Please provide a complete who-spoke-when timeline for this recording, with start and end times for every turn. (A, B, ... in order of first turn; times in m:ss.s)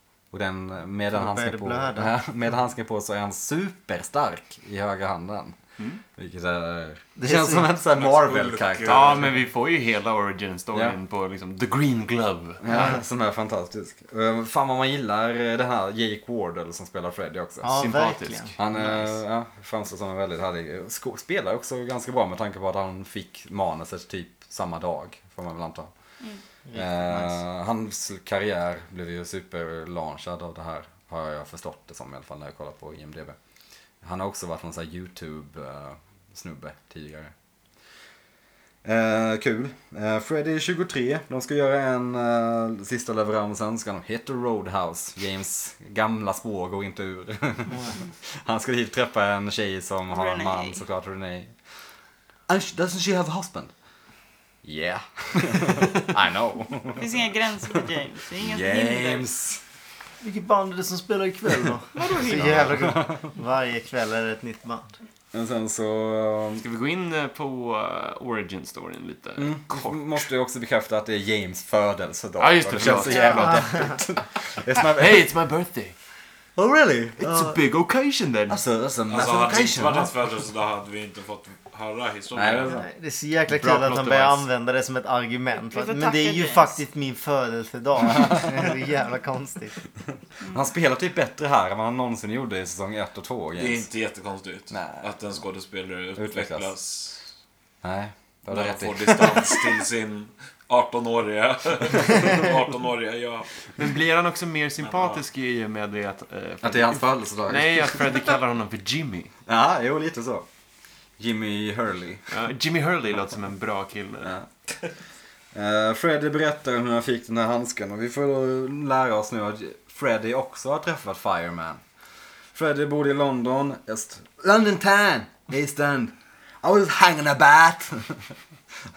0:00.3-0:05.6 A
0:01.1-0:02.1 B
0:06.2-0:09.3 A
0:07.2-0:07.7 B
0:07.9-0:09.3 C
0:08.9-0:13.0 D
0:12.6-0:17.8 A
0:17.6-0:19.1 B
0:17.7-0:18.6 D
0:18.6-0:25.9 A
0:26.7-0:27.4 B
0:26.7-0:33.4 A
0:34.0-0:37.3 A
0:38.8-0:51.5 A
0:50.1-0:50.8 E
0:52.5-0:53.7 A
0:54.6-0:57.1 A
0:57.0-0:59.3 E
0:58.4-0:59.6 A
1:00.2-1:04.9 B
1:01.9-1:02.9 E
1:02.6-1:03.2 A
1:05.3-1:06.6 A
1:06.6-1:10.2 D
1:09.4-1:15.3 A
1:12.4-1:13.6 D
1:13.1-1:13.5 E
1:13.5-1:14.0 B
1:14.9-1:16.0 D
1:16.6-1:17.6 A
1:17.2-1:18.6 D
1:18.5-1:20.1 A
1:19.1-1:22.8 C
1:22.3-1:22.8 A
1:22.7-1:29.8 B
1:23.5-1:24.5 D
1:25.7-1:26.8 E
1:28.1-1:28.6 A
1:30.5-1:33.9 A
1:33.6-1:37.3 C
1:34.7-1:35.1 A
1:36.2-1:36.7 A
1:37.8-1:39.7 A
1:38.5-1:43.7 C
1:43.8-1:49.3 D
1:44.8-1:45.2 C
1:46.6-1:48.2 A
1:49.5-1:50.5 A
1:51.2-1:52.2 A
1:52.3-1:54.4 D
1:54.2-1:54.5 A
1:55.5-2:01.8 A
2:02.5-2:08.3 A